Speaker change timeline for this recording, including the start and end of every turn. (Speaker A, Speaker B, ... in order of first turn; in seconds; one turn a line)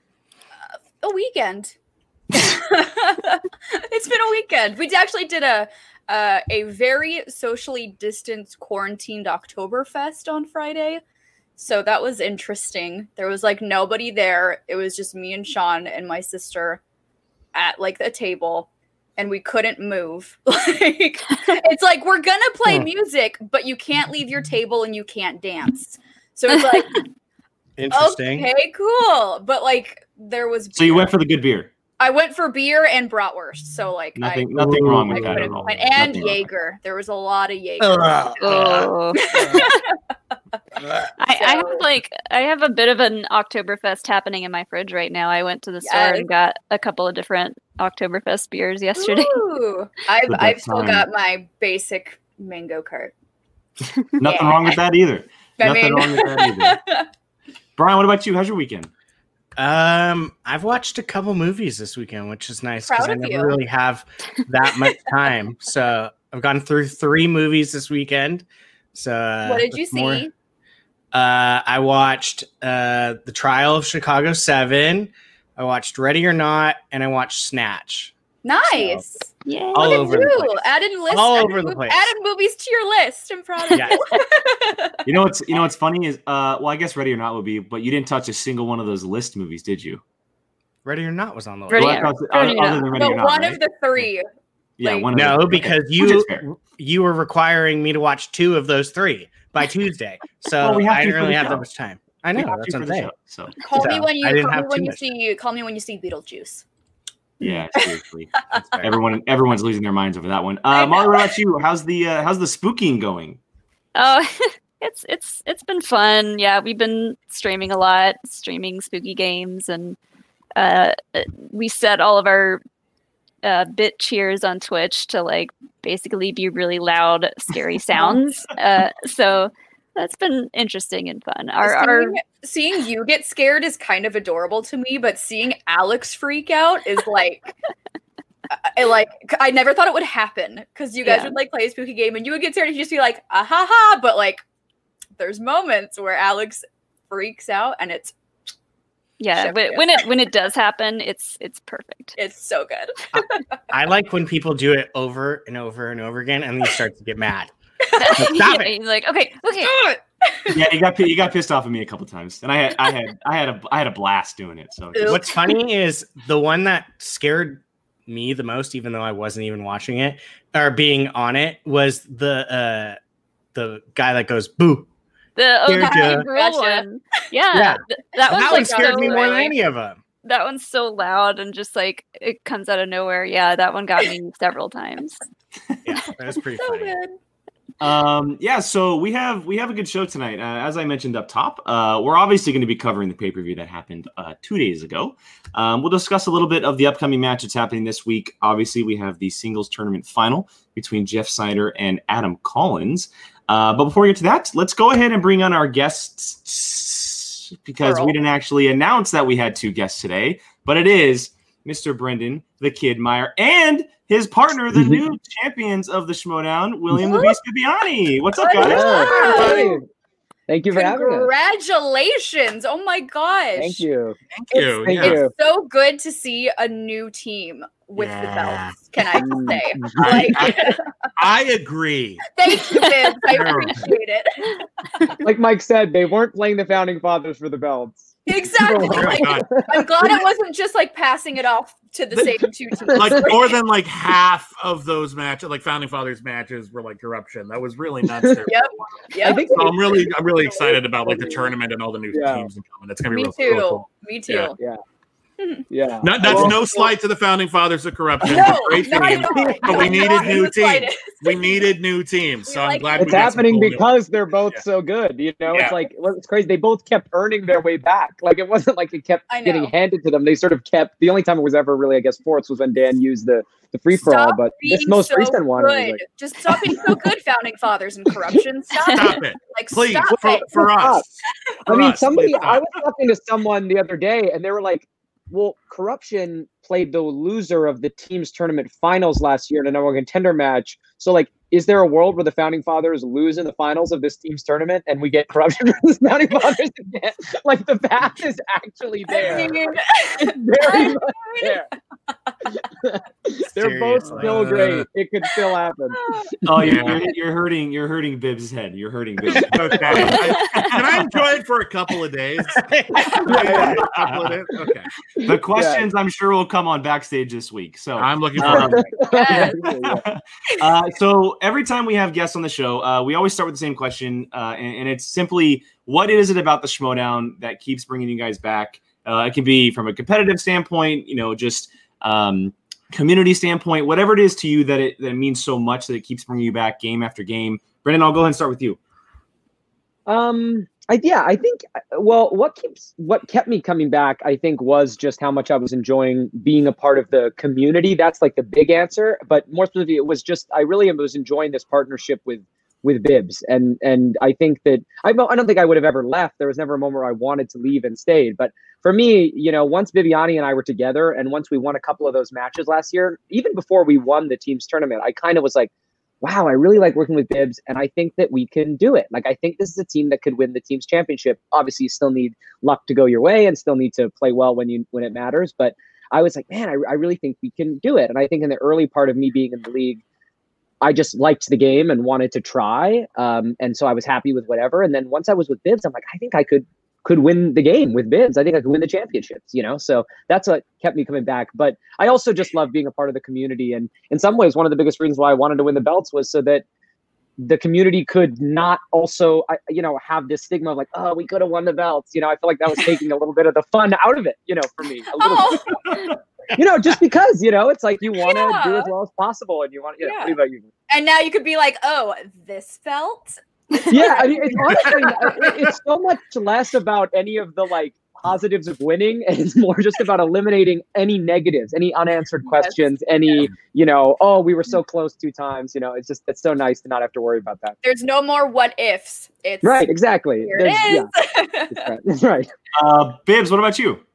Speaker A: 1.0-1.7
Speaker A: 2.3-11.0
Speaker A: 11.6-16.8
Speaker A: 17.5-27.0
Speaker B: 27.8-28.5
Speaker A: 27.9-31.1
Speaker C: 30.7-31.7
Speaker A: 32.0-38.3
Speaker C: 34.1-36.5
Speaker D: 34.6-35.5
Speaker B: 37.8-38.9
Speaker E: 38.4-39.7
Speaker A: 39.1-40.0
Speaker E: 41.2-49.5
Speaker A: 41.3-41.9
Speaker A: 45.8-46.3
Speaker A: 49.0-53.1
Speaker C: 50.3-51.0
Speaker C: 54.2-56.8
Speaker A: 54.2-54.8
Speaker A: 55.6-57.1
Speaker C: 57.8-58.9
Speaker B: 59.6-70.2
Speaker A: 62.9-63.6
Speaker A: 69.4-70.3
Speaker B: 71.1-78.1
Speaker A: 78.4-85.0
Speaker B: 78.7-79.0
Speaker E: 79.4-80.2
Speaker B: 79.7-82.1
Speaker B: 83.7-84.0
Speaker C: 85.0-90.0
Speaker B: 90.8-92.1
Speaker E: 91.7-92.9
Speaker C: 91.7-93.6
Speaker A: 92.9-94.3
Speaker C: 94.8-96.5
Speaker A: 94.8-95.2
Speaker B: 95.1-103.1
Speaker C: 100.6-101.7
Speaker C: 102.3-103.5
Speaker A: 103.6-106.6
Speaker B: 103.8-105.0
Speaker C: 107.4-113.4
Speaker A: 107.7-108.6
Speaker B: 108.5-108.9
Speaker A: 110.7-111.3
Speaker E: 113.9-120.0
Speaker E: 120.5-122.6
Speaker E: 123.4-132.2
Speaker A: 131.6-137.5
Speaker A: 138.5-144.4
Speaker E: 141.0-141.3
Speaker A: 145.2-148.1
Speaker E: 149.2-152.2
Speaker A: 149.3-150.1
Speaker A: 152.2-153.5
Speaker B: 153.1-157.5
Speaker E: 158.0-159.7
Speaker B: 158.1-158.7
Speaker A: 159.6-160.6
Speaker C: 160.5-165.2
Speaker A: 164.9-165.6
Speaker B: 165.1-173.0
Speaker B: 173.5-174.9
Speaker E: 175.3-179.4
Speaker B: 175.7-176.3
Speaker A: 175.8-176.9
Speaker B: 177.5-180.0
Speaker A: 178.1-179.5
Speaker E: 180.2-185.2
Speaker B: 185.8-187.0
Speaker A: 186.5-187.2
Speaker C: 187.8-219.5
Speaker A: 207.8-208.1
Speaker A: 217.0-217.3
Speaker A: 218.4-219.8
Speaker F: 218.6-219.8
Speaker F: 220.5-221.3
Speaker A: 220.7-223.8
Speaker F: 223.6-225.3
Speaker D: 224.3-225.2
Speaker A: 225.0-230.9
Speaker D: 228.0-228.9
Speaker F: 229.2-230.3
Speaker D: 229.9-232.2
Speaker A: 232.2-235.1
Speaker D: 233.3-233.9
Speaker F: 235.2-240.1
Speaker A: 238.2-243.6
Speaker D: 238.8-240.1
Speaker D: 242.1-248.5
Speaker F: 242.9-243.2
Speaker F: 248.2-248.5
Speaker A: 248.4-249.6
Speaker F: 249.2-251.5
Speaker D: 249.4-254.5
Speaker F: 252.1-252.5
Speaker A: 253.1-254.6
Speaker A: 255.4-255.7
Speaker F: 255.7-256.9
Speaker D: 256.0-263.9
Speaker A: 258.2-261.7
Speaker F: 259.2-260.4
Speaker A: 262.4-263.2
Speaker F: 263.0-276.0
Speaker D: 265.5-265.8
Speaker A: 269.3-269.7
Speaker A: 274.0-280.7
Speaker F: 276.6-277.0
Speaker D: 278.9-282.6
Speaker F: 280.7-281.0
Speaker F: 281.7-299.6
Speaker A: 299.1-301.6
Speaker F: 300.2-301.7
Speaker F: 302.5-306.2
Speaker B: 303.6-304.5
Speaker D: 304.0-304.8
Speaker A: 305.9-306.4
Speaker C: 306.4-311.3
Speaker D: 306.5-307.1
Speaker D: 309.5-314.9
Speaker B: 312.6-313.3
Speaker F: 313.2-313.8
Speaker C: 313.3-314.4
Speaker F: 315.2-315.9
Speaker C: 315.2-338.8
Speaker D: 318.0-318.9
Speaker F: 318.4-320.0
Speaker A: 319.0-319.7
Speaker F: 340.1-365.7
Speaker F: 366.2-380.0
Speaker F: 380.8-396.6
Speaker F: 397.4-405.8
Speaker A: 405.1-405.9
Speaker F: 406.5-410.7
Speaker A: 408.2-408.9
Speaker A: 410.0-410.4
Speaker A: 410.9-415.5
Speaker F: 413.9-427.8
Speaker D: 414.6-415.5
Speaker A: 422.4-422.8
Speaker A: 427.8-429.9
Speaker F: 429.6-431.1
Speaker A: 430.4-431.9
Speaker F: 431.7-432.5
Speaker C: 432.7-434.0